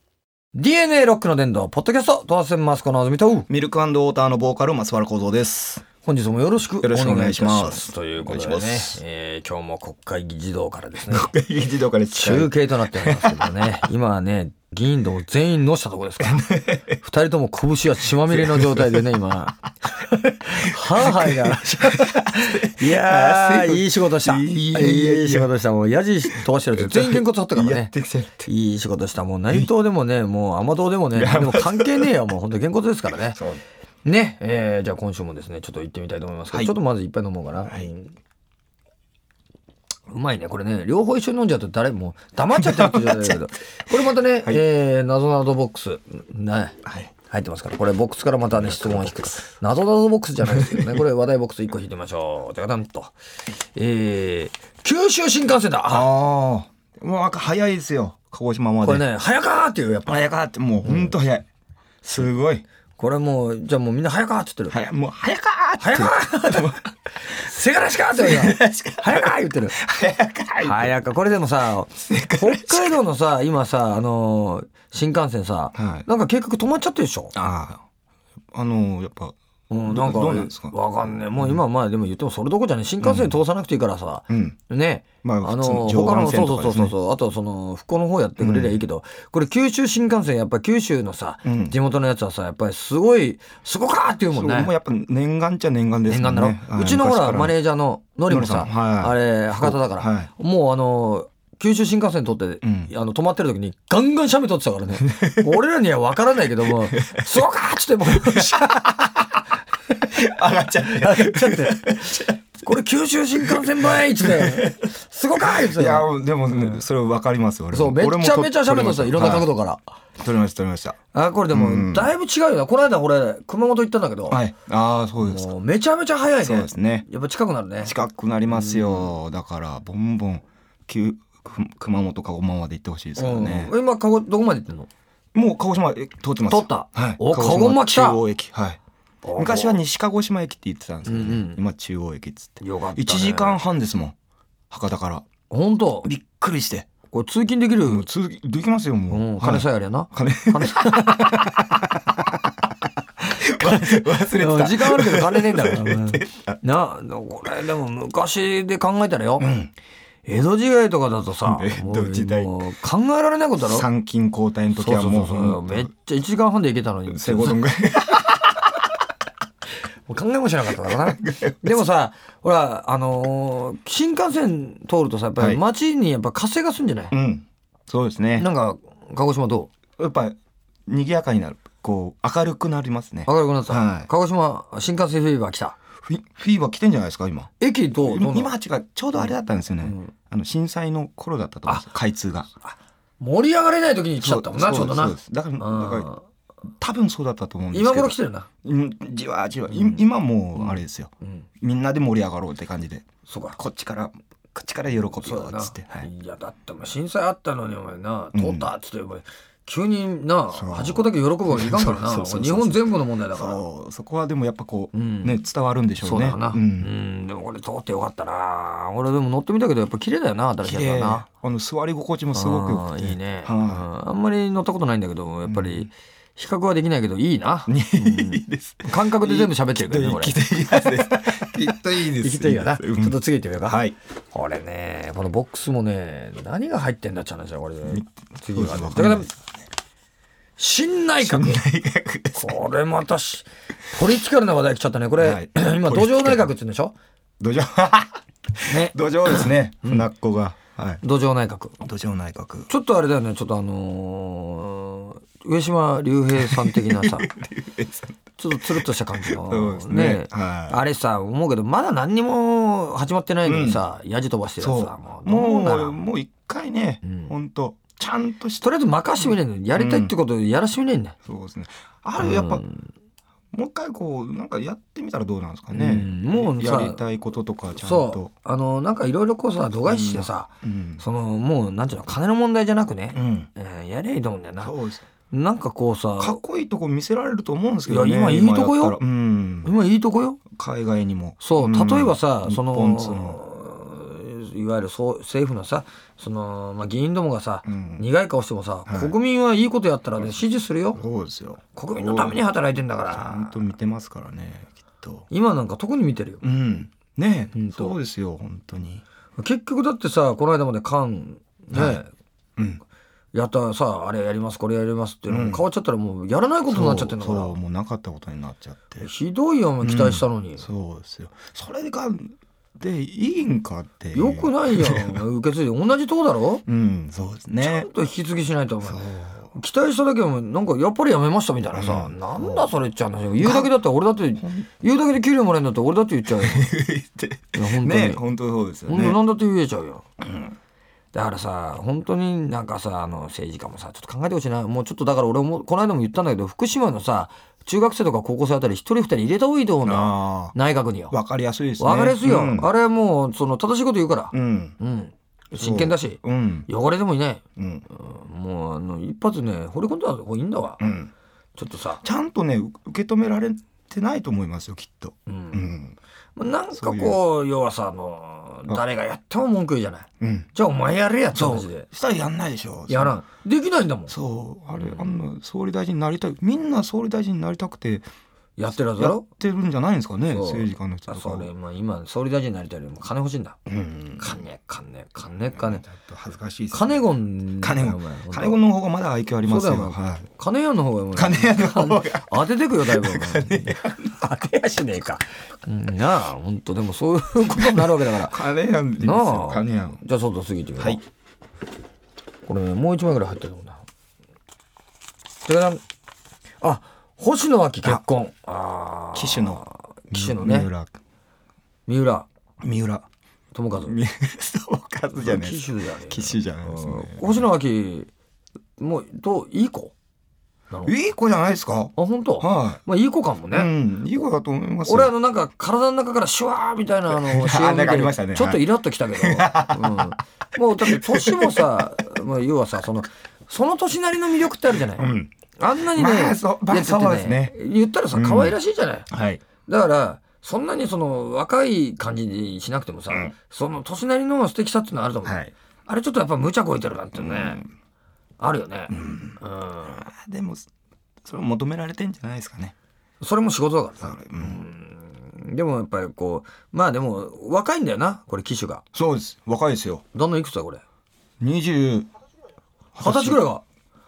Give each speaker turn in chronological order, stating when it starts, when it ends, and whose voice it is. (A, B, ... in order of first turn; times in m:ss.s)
0:00.5-0:03.5 A
0:03.5-0:05.8 B
0:06.0-0:11.3 A
0:06.8-0:09.0 B
0:11.1-0:13.8 B
0:12.1-0:16.4 A
0:16.2-0:17.0 B
0:17.0-0:27.9 A
0:18.3-0:19.1 B
0:20.6-0:25.5 B
0:26.2-0:28.5 B
0:28.4-0:33.4 A
0:31.1-0:32.1 B
0:33.3-0:33.6 B
0:34.0-0:38.1 A
0:37.6-0:37.9 B
0:40.1-0:53.1 A
0:42.5-0:43.4 B
0:46.8-0:47.1 B
0:48.5-0:49.4 B
0:50.4-0:51.0 B
0:53.7-0:56.1 A
0:55.9-0:59.0 B
0:58.8-1:00.3 A
1:00.1-1:01.4 B
1:00.8-1:01.2 A
1:02.0-1:02.6 B
1:03.0-1:04.8 A
1:04.7-1:06.8 B
1:05.8-1:09.8 A
1:08.1-1:10.9 B
1:10.6-1:17.3 A
1:12.0-1:13.0 B
1:15.7-1:16.0 B
1:17.3-1:17.8 B
1:18.5-1:19.3 B
1:19.7-1:34.7 A
1:19.9-1:20.8 B
1:21.3-1:21.6 B
1:23.0-1:23.4 B
1:24.3-1:24.6 B
1:25.2-1:26.9 B
1:28.4-1:28.8 B
1:31.4-1:31.8 B
1:34.3-1:37.6 B
1:36.1-1:48.8 A
1:38.3-1:40.3 B
1:42.6-1:42.9 B
1:45.0-1:45.6 B
1:46.7-1:47.2 B
1:48.1-1:49.3 B
1:50.1-1:52.8 B
1:50.7-1:56.8 A
1:53.4-1:59.5 B
1:57.7-1:59.8 A
2:00.2-2:01.0 B
2:01.1-2:04.4 A
2:01.5-2:02.1 B
2:04.3-2:05.5 B
2:05.2-2:07.9 A
2:06.4-2:07.0 B
2:07.8-2:13.7 B
2:08.5-2:09.1 A
2:13.2-2:14.9 A
2:15.3-2:18.8 B
2:16.5-2:18.2 A
2:19.2-2:19.8 A
2:19.4-2:24.1 B
2:21.0-2:21.6 A
2:22.6-2:23.6 A
2:24.7-2:25.2 B
2:25.5-2:26.1 A
2:26.0-2:26.9 B
2:27.1-2:28.1 A
2:27.8-2:32.5 B
2:29.1-2:31.6 A
2:33.2-2:36.6 B
2:33.4-2:39.5 A
2:39.4-2:39.7 B
2:40.2-2:43.9 A
2:41.4-2:42.7 B
2:43.6-2:45.9 B
2:44.8-2:47.6 A
2:47.1-2:48.5 B
2:50.1-2:57.1 A
2:50.8-2:51.8 B
2:57.1-2:58.5 B
2:58.4-2:59.7 A
3:00.0-3:00.4 B
3:00.9-3:04.1 B
3:03.2-3:05.8 A
3:06.0-3:12.5 B
3:07.6-3:08.5 A
3:09.8-3:10.1 A
3:12.6-3:16.2 A
3:14.2-3:16.1 B
3:16.8-3:26.1 B
3:17.7-3:18.5 A
3:19.7-3:21.5 A
3:23.2-3:23.6 A
3:25.2-3:33.6 A
3:28.3-3:28.7 B
3:30.5-3:36.9 B
3:34.9-3:35.4 A
3:36.0-3:41.2 A
3:40.6-3:43.8 B
3:42.3-3:53.8 A
3:45.5-3:45.9 B
3:47.7-3:54.0 B
3:54.3-3:59.3 A
3:57.8-3:59.4 B
4:00.6-4:01.6 A
4:01.2-4:02.6 B
4:02.3-4:06.9 A
4:05.2-4:06.5 B
4:07.4-4:11.0 B
4:08.7-4:10.1 A
4:11.0-4:11.8 A
4:11.8-4:12.7 B
4:12.7-4:17.3 A
4:16.4-4:20.8 B
4:18.4-4:26.0 A
4:23.4-4:23.8 B
4:24.6-4:28.7 B
4:27.0-4:27.3 A
4:28.6-4:31.2 A
4:29.2-4:30.1 B
4:31.2-4:32.6 B
4:32.2-4:32.9 A
4:33.5-4:38.3 B
4:35.7-4:37.0 A
4:37.8-4:44.8 A
4:39.8-4:41.0 B
4:43.1-4:43.5 B
4:44.6-4:45.0 B
4:45.3-4:46.4 A
4:46.2-4:49.7 B
4:47.9-4:49.0 A
4:49.6-4:50.4 A
4:50.5-4:53.4 B
4:51.4-5:01.0 A
4:57.6-4:58.1 B
4:58.9-4:59.2 B
5:00.9-5:02.4 B
5:01.7-5:03.6 A
5:03.1-5:05.2 B
5:05.3-5:06.4 A
5:06.4-5:09.0 B
5:07.5-5:08.0 A
5:09.4-5:12.1 A
5:11.7-5:12.0 B
5:12.6-5:12.8 B
5:13.3-5:17.6 A
5:15.3-5:15.6 B
5:16.7-5:19.1 B
5:19.0-5:20.6 A
5:19.8-5:25.2 B
5:24.1-5:26.6 A
5:26.6-5:27.9 B
5:27.6-5:29.0 A
5:28.8-5:29.5 B
5:29.5-5:36.7 A
5:31.7-5:32.7 B
5:33.4-5:33.7 B
5:34.4-5:34.7 B
5:36.3-5:39.2 B
5:37.5-5:38.2 A
5:38.9-5:40.0 A
5:40.2-5:40.5 B
5:41.1-5:51.1 A
5:49.8-5:50.5 B
5:51.1-5:52.7 B
5:51.8-6:00.8 A
5:54.3-5:54.8 B
5:55.5-5:56.7 B
5:57.6-5:57.9 B
6:00.8-6:01.1 B
6:01.6-6:02.0 A
6:02.0-6:06.0 B
6:05.3-6:05.7 A
6:06.4-6:11.9 A
6:06.7-6:07.2 B
6:10.2-6:10.5 B
6:11.3-6:13.2 B
6:12.9-6:14.1 A
6:14.1-6:18.1 B
6:14.8-6:15.1 A
6:18.6-6:19.2 A
6:18.7-6:21.5 B
6:20.2-6:23.6 A
6:23.6-6:24.4 B
6:24.2-6:25.8 A
6:25.5-6:30.3 B
6:26.7-6:28.6 A
6:29.4-6:38.4 A
6:31.1-6:34.2 B
6:37.6-6:40.0 B
6:39.0-6:41.0 A
6:42.4-6:43.8 A
6:45.4-6:45.8 A
6:46.6-6:50.7 A
6:49.1-6:51.0 B
6:51.9-6:52.3 A
6:52.6-6:53.0 B
6:53.5-6:54.0 A
6:53.8-6:57.4 B
6:55.2-6:58.1 A
6:58.8-6:59.9 A
7:00.8-7:02.8 B
7:02.0-7:03.7 A
7:03.5-7:05.1 B
7:04.8-7:19.1 A
7:07.1-7:10.2 B
7:10.8-7:11.8 B
7:14.9-7:17.5 B
7:18.1-7:18.6 B
7:19.1-7:19.4 B
7:19.6-7:27.6 A
7:25.2-7:25.5 B
7:27.1-7:27.7 B
7:28.4-7:30.1 A
7:28.9-7:30.7 B
7:31.2-7:32.7 B
7:33.2-7:38.8 A
7:34.0-7:34.6 B
7:38.9-7:40.0 B
7:40.1-7:40.8 A
7:41.4-7:42.1 B
7:42.9-7:43.5 B
7:43.0-7:43.6 A